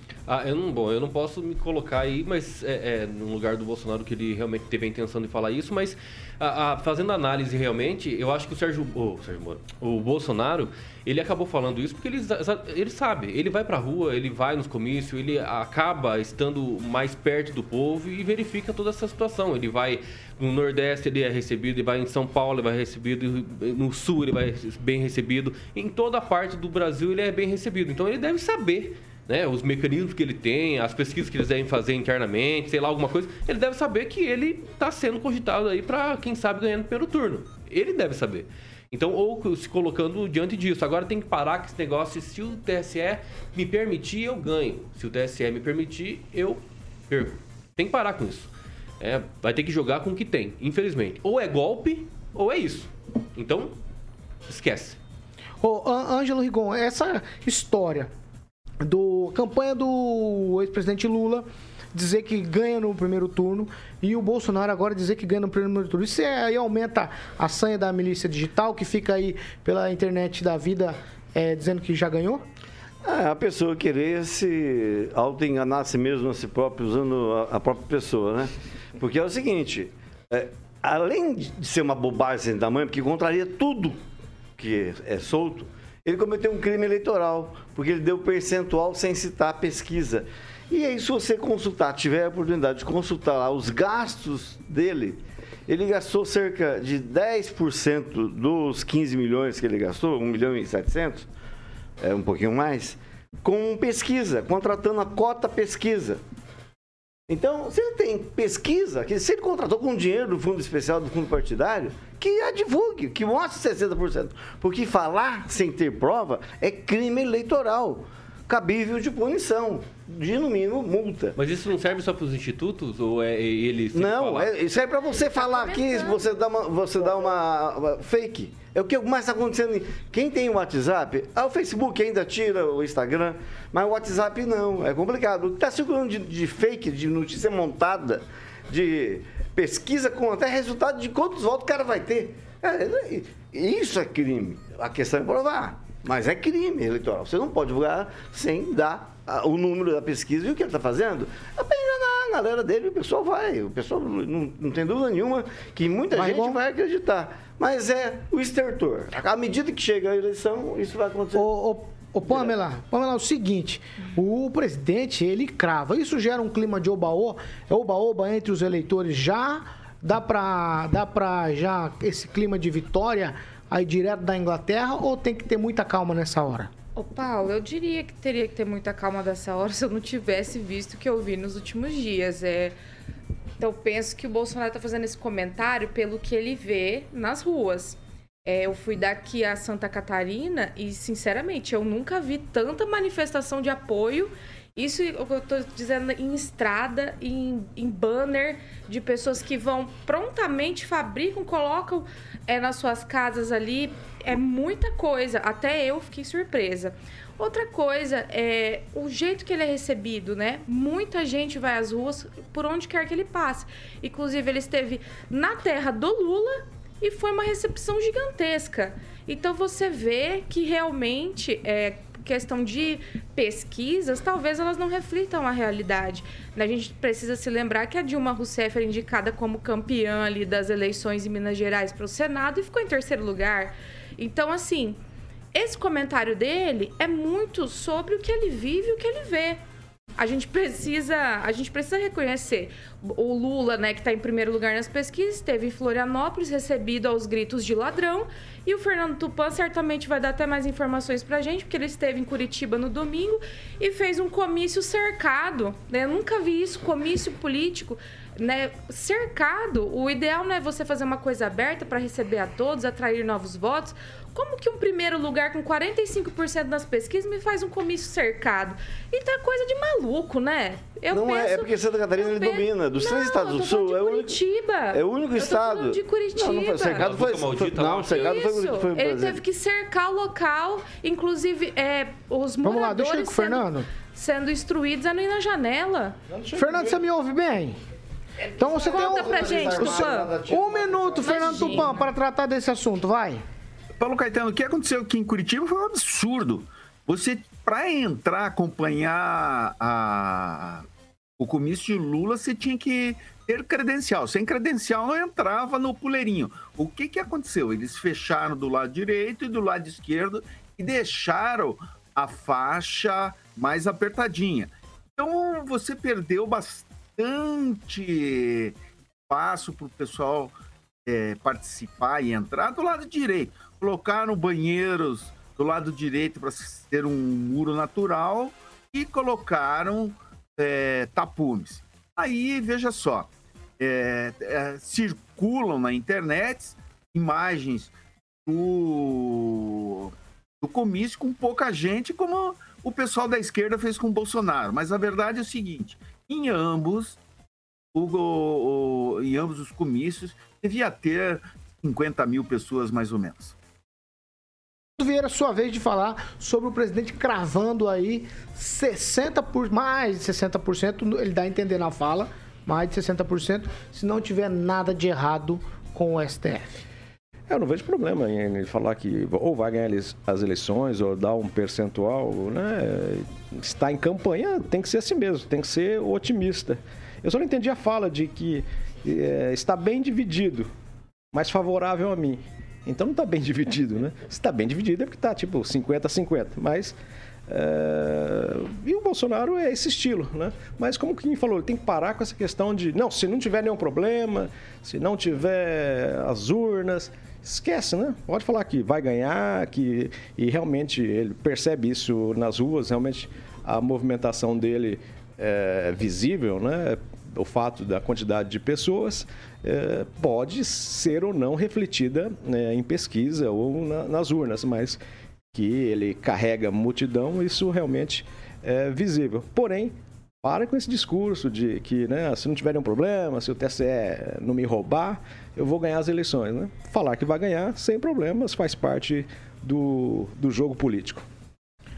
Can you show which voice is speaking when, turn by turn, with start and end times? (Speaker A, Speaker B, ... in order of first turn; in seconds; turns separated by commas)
Speaker A: 0.3-53.8, Speaker A: 54.5-55.0, Speaker B: 55.6-58.1, Speaker B: 58.8-72.4, Speaker C: 73.0-84.0, Speaker C: 84.6-101.3, Speaker C: 102.0-106.2, Speaker C: 107.3-121.4, Speaker A: 121.4-124.5, Speaker C: 123.9-161.5, Speaker D: 125.1-126.2, Speaker B: 156.1-156.6, Speaker B: 161.3-176.7, Speaker C: 162.3-162.5, Speaker D: 177.0-182.8, Speaker D: 183.6-235.0, Speaker D: 235.5-239.6, Speaker D: 240.2-277.1, Speaker C: 271.1-274.4, Speaker C: 274.9-279.4, Speaker A: 277.0-278.3, Speaker D: 278.1-286.2, Speaker B: 282.6-283.9, Speaker E: 286.3-287.0, Speaker B: 286.6-287.8, Speaker D: 288.6-290.3, Speaker B: 288.6-293.4, Speaker C: 288.6-292.0, Speaker D: 291.2-292.0, Speaker F: 294.0-300.9, Speaker F: 301.4-318.8, Speaker F: 319.3-320.5, Speaker F: 321.1-337.9, Speaker F: 338.5-347.2, Speaker F: 347.9-353.6, Speaker B: 355.0-366.8, Speaker E: 367.5-380.7, Speaker E: 381.3-387.0, Speaker E: 387.5-415.0, Speaker E: 415.5-431.2